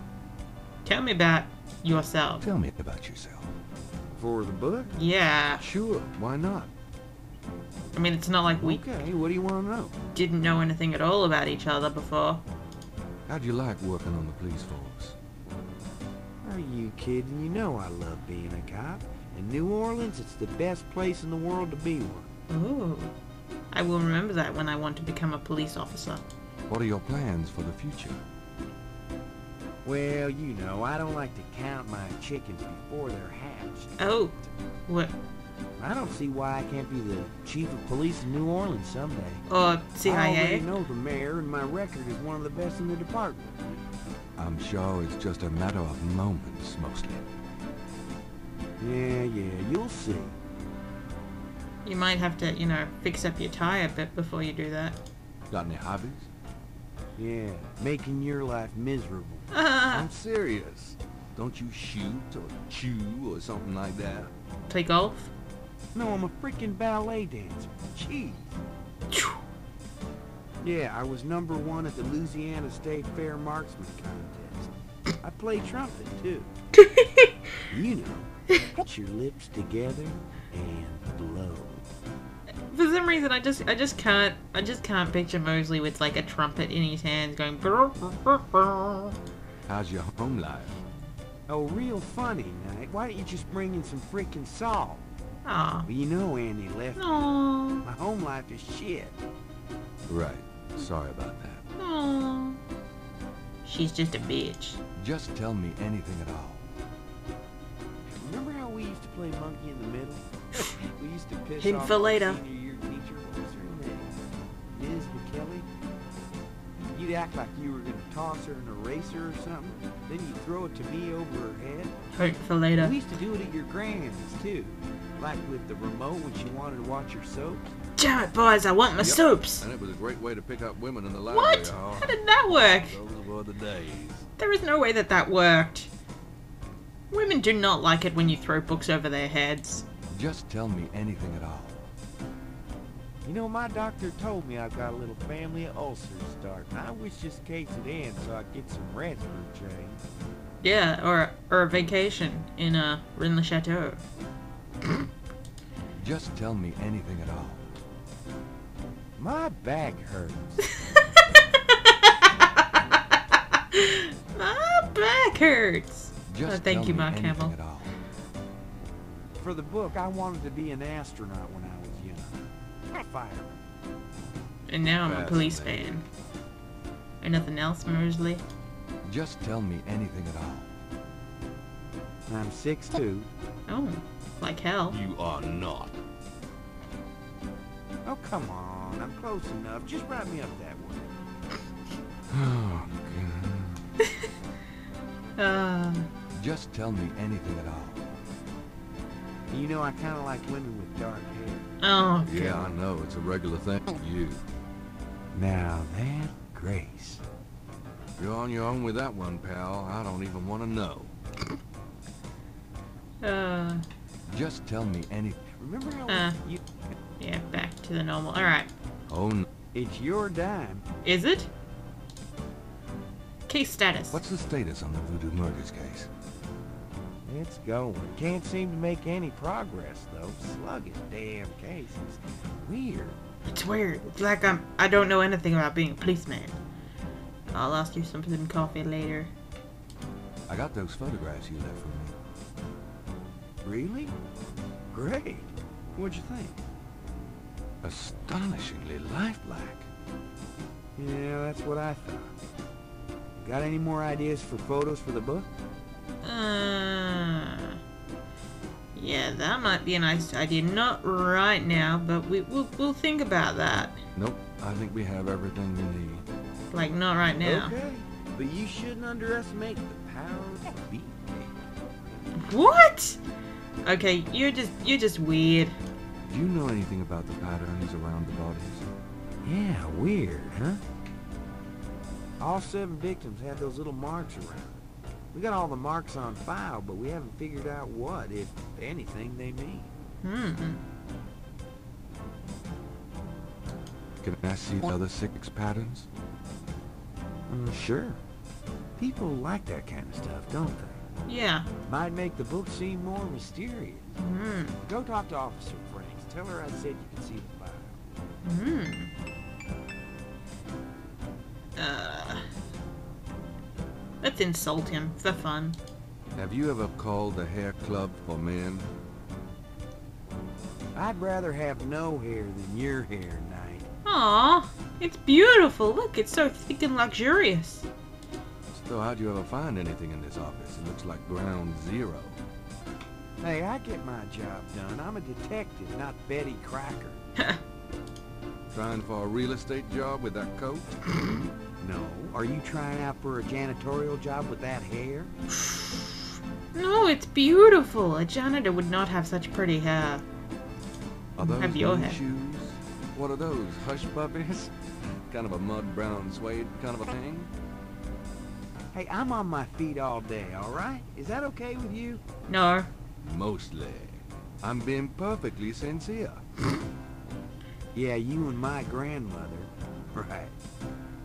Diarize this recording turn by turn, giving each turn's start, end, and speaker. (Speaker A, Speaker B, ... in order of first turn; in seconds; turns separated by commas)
Speaker A: 0.8-2.5, Speaker B: 2.4-3.6, Speaker C: 4.2-4.9, Speaker A: 4.9-5.7, Speaker B: 5.6-6.7, Speaker A: 7.9-8.8, Speaker C: 8.6-9.9, Speaker A: 10.1-12.4, Speaker B: 13.3-15.2, Speaker C: 16.4-22.3, Speaker A: 22.5-23.1, Speaker A: 23.7-26.2, Speaker B: 26.7-28.2, Speaker C: 29.8-34.5, Speaker A: 34.0-34.4, Speaker A: 34.9-35.1, Speaker C: 35.8-39.5, Speaker A: 39.5-40.7, Speaker C: 40.0-43.6, Speaker B: 44.4-47.3, Speaker C: 48.8-50.4, Speaker A: 51.8-55.0, Speaker B: 55.5-56.3, Speaker C: 57.2-59.5, Speaker A: 59.5-60.1, Speaker B: 59.9-64.3, Speaker A: 64.7-65.3, Speaker C: 65.9-68.6, Speaker A: 69.1-69.4, Speaker C: 70.6-76.5, Speaker A: 76.8-77.3, Speaker C: 77.7-81.8, Speaker A: 82.7-89.2, Speaker B: 89.7-90.8, Speaker C: 91.5-95.1, Speaker A: 95.5-95.9, Speaker C: 95.9-99.2, Speaker A: 97.0-97.8, Speaker B: 100.1-101.6, Speaker A: 101.8-102.6, Speaker A: 103.6-104.8, Speaker B: 105.0-106.8, Speaker C: 108.2-114.2, Speaker A: 111.6-112.4, Speaker C: 114.7-115.7, Speaker C: 116.9-121.9, Speaker A: 122.1-123.0, Speaker C: 122.8-127.7, Speaker A: 128.0-129.7, Speaker B: 129.0-134.3, Speaker A: 131.3-133.0, Speaker A: 134.4-135.9, Speaker A: 137.1-139.9, Speaker B: 140.1-141.9, Speaker C: 143.2-150.0, Speaker A: 150.6-154.0, Speaker B: 156.0-157.7, Speaker C: 159.2-160.6, Speaker A: 160.9-167.6, Speaker B: 166.3-167.9, Speaker C: 169.4-172.4, Speaker C: 172.9-173.6, Speaker A: 174.7-176.0, Speaker B: 175.0-176.0, Speaker A: 177.2-178.4, Speaker B: 179.0-180.8, Speaker C: 182.3-183.3, Speaker A: 183.7-185.0, Speaker B: 184.9-186.0, Speaker C: 188.1-191.1, Speaker B: 192.3-193.8, Speaker A: 195.4-196.1, Speaker B: 196.3-198.1, Speaker C: 199.5-201.7, Speaker A: 201.8-202.7, Speaker B: 202.2-204.4, Speaker C: 205.3-207.2, Speaker B: 208.2-211.1, Speaker A: 213.2-213.8, Speaker B: 214.3-215.4, Speaker C: 215.6-216.6, Speaker A: 216.1-216.4, Speaker A: 217.2-218.7, Speaker B: 219.1-219.5, Speaker C: 219.7-220.8, Speaker A: 221.0-221.5, Speaker A: 223.5-224.2, Speaker B: 224.1-226.1, Speaker C: 227.3-233.2, Speaker A: 233.5-236.6, Speaker A: 237.5-239.3, Speaker B: 240.5-242.2, Speaker C: 243.6-244.2, Speaker C: 244.9-246.6, Speaker B: 247.8-249.9, Speaker C: 251.0-252.4, Speaker C: 253.4-255.5, Speaker A: 256.2-257.8, Speaker A: 258.9-264.0, Speaker B: 264.1-266.3, Speaker A: 266.7-267.8, Speaker C: 267.4-272.5, Speaker A: 272.4-273.2, Speaker A: 273.9-275.8, Speaker B: 276.3-278.9, Speaker C: 279.4-280.8, Speaker C: 282.4-284.8, Speaker C: 285.3-289.9, Speaker A: 290.2-290.8, Speaker B: 294.2-296.1, Speaker C: 297.5-298.2, Speaker C: 299.0-301.0, Speaker A: 301.3-301.7, Speaker C: 301.9-304.2, Speaker A: 304.2-304.8, Speaker C: 304.8-308.2, Speaker A: 308.4-309.1, Speaker A: 311.8-312.5, Speaker A: 314.2-315.8, Speaker B: 316.4-318.9, Speaker C: 320.9-323.9, Speaker A: 324.1-327.9, Speaker B: 328.7-332.4, Speaker C: 333.4-337.2, Speaker B: 338.7-340.9, Speaker C: 341.8-345.3, Speaker A: 345.6-350.2, Speaker B: 351.4-357.5, Speaker A: 351.6-352.2, Speaker C: 358.9-362.2, Speaker A: 362.5-362.9, Speaker B: 363.2-366.4, Speaker C: 367.9-370.6